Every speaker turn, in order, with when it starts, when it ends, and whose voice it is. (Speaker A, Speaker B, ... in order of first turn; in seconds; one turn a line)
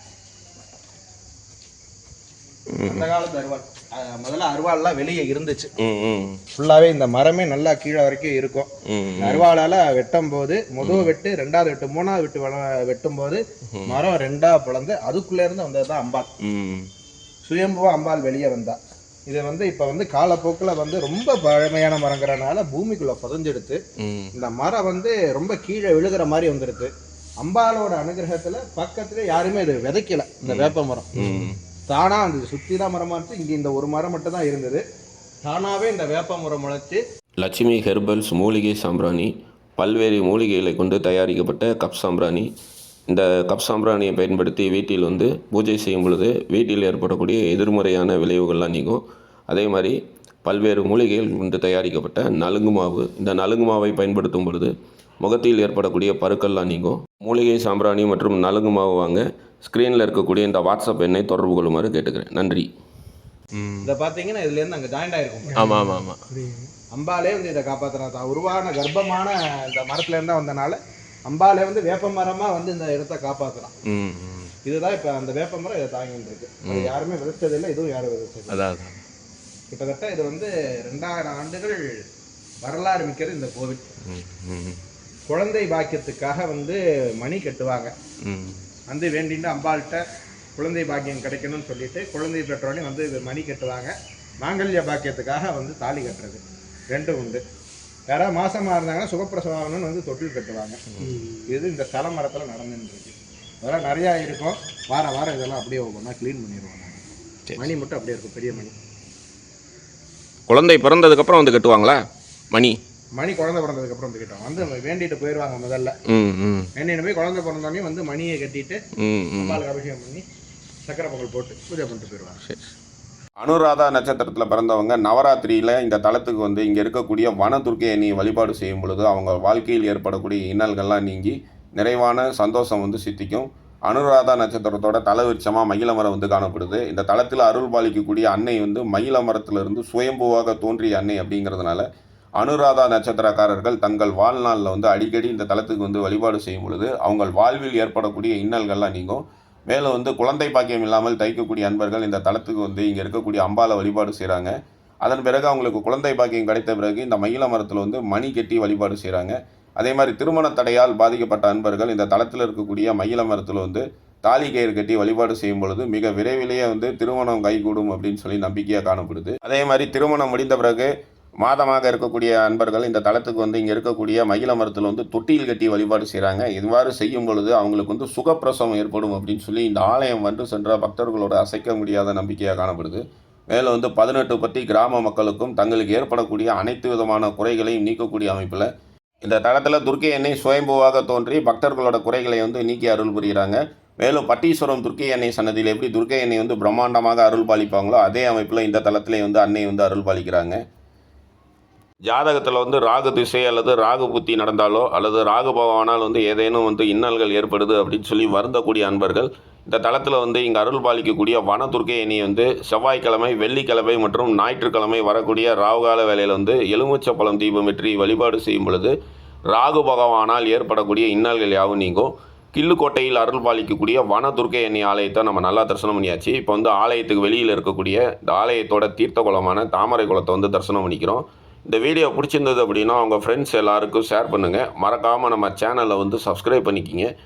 Speaker A: 2.7-3.1
Speaker B: 2.9-5.7
Speaker A: 5.8-6.4
Speaker B: 6.5-8.7
Speaker A: 8.9-9.5
Speaker B: 9.2-16.3
Speaker A: 10.8-11.1
Speaker A: 16.4-16.9
Speaker B: 17.4-23.8
Speaker A: 24.0-24.3
Speaker B: 24.3-26.9
Speaker B: 27.4-31.2
Speaker A: 30.5-31.6
Speaker B: 31.9-34.8
Speaker B: 35.5-37.0
Speaker A: 37.4-42.5
Speaker A: 43.1-62.7
Speaker A: 63.5-63.9
Speaker B: 63.8-65.8
Speaker A: 65.6-66.2
Speaker B: 66.9-73.8
Speaker A: 73.9-74.5
Speaker B: 74.7-78.6
Speaker A: 76.7-76.9
Speaker A: 78.5-79.0
Speaker B: 79.7-81.8
Speaker B: 82.6-83.8
Speaker A: 84.0-84.8
Speaker B: 85.3-87.9
Speaker A: 88.3-88.6
Speaker B: 88.9-90.0
Speaker B: 90.6-97.4
Speaker B: 98.1-100.8
Speaker B: 101.5-107.0
Speaker B: 107.6-108.8
Speaker A: 110.5-112.0
Speaker B: 113.2-116.0
Speaker A: 116.1-116.7
Speaker B: 116.8-118.8
Speaker A: 119.0-119.6
Speaker B: 119.4-120.2
Speaker B: 120.9-122.4
Speaker A: 123.4-141.9
Speaker A: 142.4-154.5
Speaker A: 155.0-170.9
Speaker A: 171.4-188.7
Speaker A: 189.2-200.6
Speaker A: 202.1-218.9
Speaker A: 219.5-237.1